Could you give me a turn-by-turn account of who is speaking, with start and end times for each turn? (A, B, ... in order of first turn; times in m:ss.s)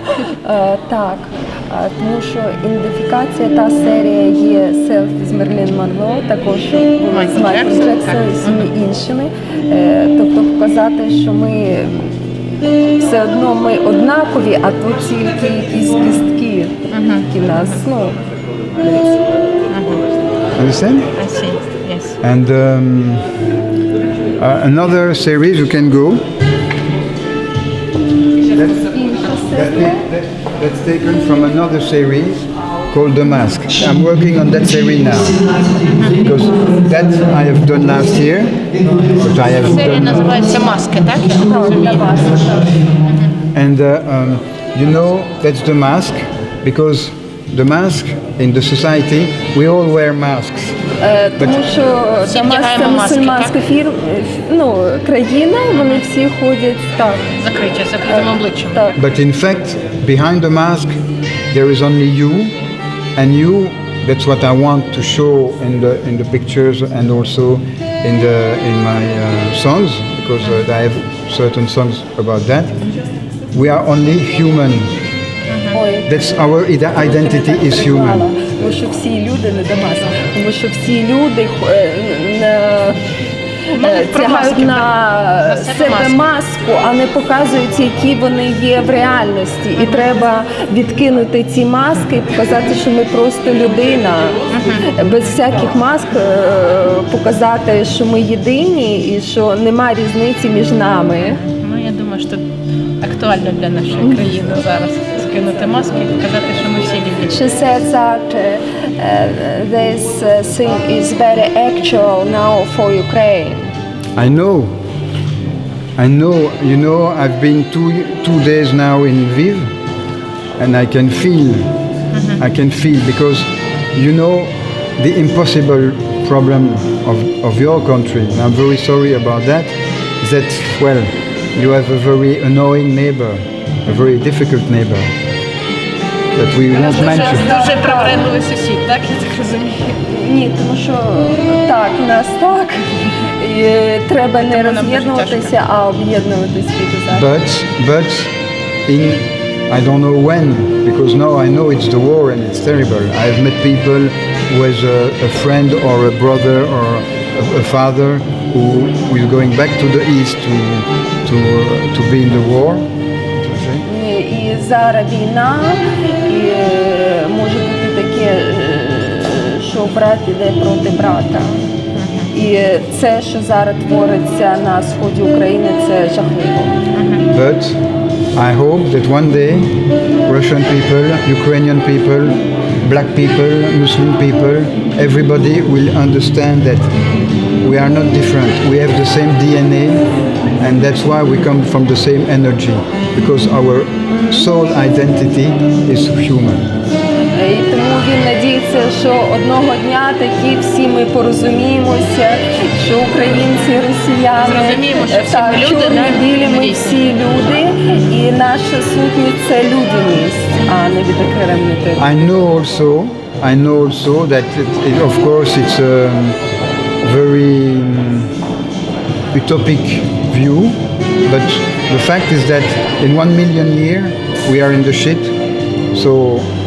0:00.1-0:18.2 A
0:07.1-0:08.7 B
0:16.9-0:17.3 B
0:19.7-0:20.0 B
0:20.6-0:21.1 C
0:21.2-0:22.2 B
0:22.2-0:23.3 C
0:24.4-0:26.2 C
0:28.5-0:35.6 C
0:28.9-0:30.0 A
0:36.1-0:40.3 C
0:39.5-0:42.2 B
0:41.4-0:42.8 A
0:43.1-0:43.3 B
0:43.5-0:50.8 C
0:51.0-0:57.3 A
0:51.4-0:51.6 C
0:52.3-0:53.6 B
0:57.3-0:59.0 B
0:58.0-0:59.0 A
0:59.0-1:01.0 C
1:01.5-1:02.5 C
1:03.2-1:12.7 C
1:13.5-1:14.9 C
1:15.5-1:15.8 B
1:15.7-1:16.1 A
1:16.0-1:18.2 C
1:17.0-1:23.1 A
1:23.7-1:41.4 A
1:23.7-1:26.2 B
1:34.5-1:34.9 B
1:41.2-1:42.4 B
1:43.0-1:47.5 B
1:47.3-1:53.7 A
1:54.1-1:54.8 C
1:56.0-1:59.7 C
2:00.6-2:01.7 C
2:02.1-2:02.4 B
2:02.4-2:15.1 C
2:16.3-2:17.4 C
2:16.7-2:18.2 A
2:16.8-2:20.0 B
2:20.0-2:27.3 A
2:24.5-2:25.5 B
2:27.1-2:28.3 C
2:28.9-2:43.8 C
2:43.9-2:51.7 A
2:51.9-2:52.3 B
2:52.3-2:56.8 A
2:56.9-2:57.2 B
2:57.3-2:57.8 C
2:58.3-3:06.9 C
3:07.6-3:10.0 C
3:10.6-3:16.7 C
3:14.1-3:14.4 A
3:17.3-3:32.1 A
3:24.4-3:27.1 B
3:32.0-3:36.4 C
3:37.0-3:38.3 C
3:39.3-3:45.3 C
3:45.9-3:46.5 C